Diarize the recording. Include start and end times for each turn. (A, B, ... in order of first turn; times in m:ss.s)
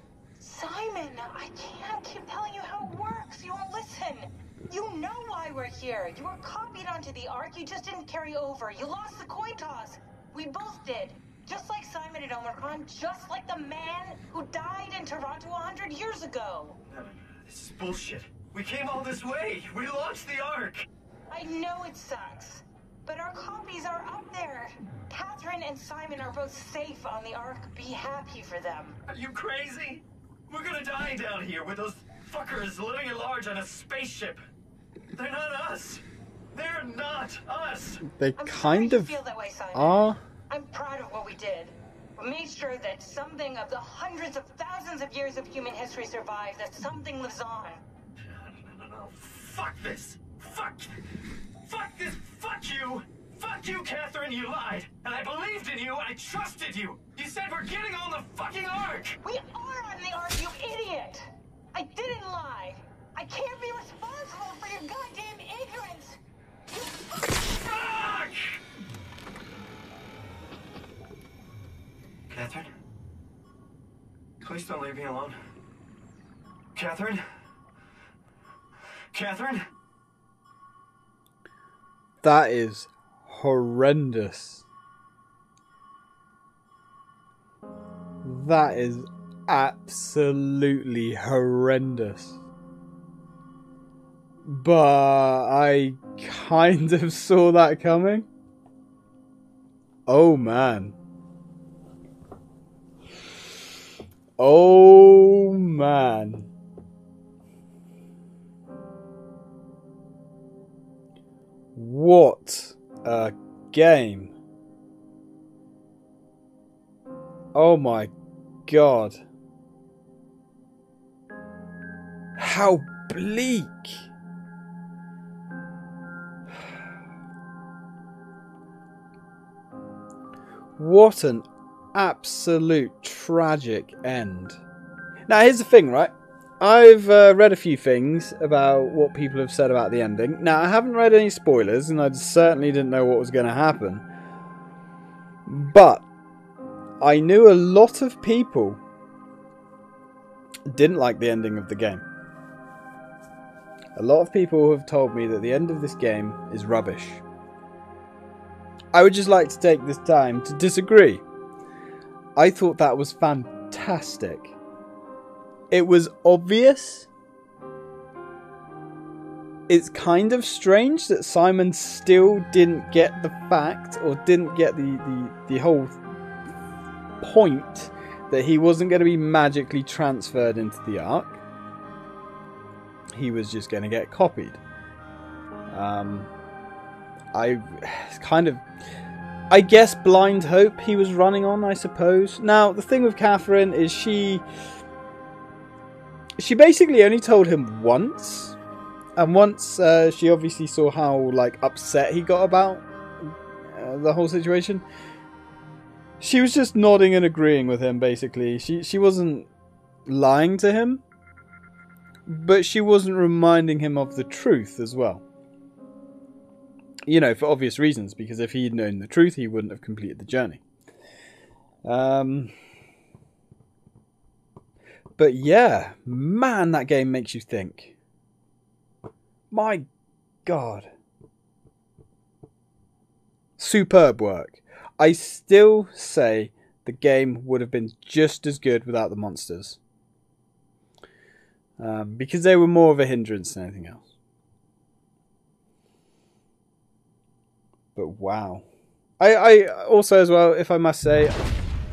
0:00.4-0:16.8 A
0:16.9-0:20.9 B
0:21.3-0:29.0 A
0:29.1-0:34.4 B
0:35.1-0:38.0 B
0:38.0-0:39.2 C
0:38.4-0:47.8 A
0:39.7-0:40.2 C
0:48.3-0:50.9 B
0:51.6-0:59.2 B
0:59.2-1:06.2 A
1:06.7-1:07.6 A
1:07.6-1:08.6 B
1:12.3-1:12.7 B
1:14.4-1:15.4 B
1:16.8-1:17.2 B
1:19.1-1:19.7 B
1:22.2-1:24.7 C
1:28.2-1:32.4 C
1:34.4-1:38.3 C
1:40.1-1:41.0 C
1:44.4-1:46.5 C
1:51.8-1:54.3 C
1:57.5-1:58.1 C
1:58.7-1:59.2 C
2:02.4-2:04.1 C
2:10.8-2:14.6 C
2:15.3-2:24.1 C
2:25.5-2:26.0 C
2:27.0-2:28.8 C
2:30.7-2:32.0 C
2:34.0-2:37.2 C
2:38.9-2:41.2 C
2:42.4-2:44.6 C
2:45.7-2:47.1 C
2:49.7-2:56.0 C
2:57.2-3:01.4 C
3:03.1-3:04.6 C
3:05.7-3:06.3 C
3:07.3-3:08.6 C
3:09.5-3:14.5 C
3:16.4-3:18.6 C
3:19.2-3:24.8 C
3:26.2-3:29.5 C
3:30.1-3:31.0 C
3:32.3-3:35.2 C
3:37.1-3:40.6 C
3:41.8-3:42.5 C
3:45.2-3:48.0 C
3:49.5-3:49.9 C
3:50.4-3:50.9 C
3:53.6-3:59.8 C
4:01.8-4:04.1 C
4:08.0-4:08.6 C
4:09.2-4:11.4 C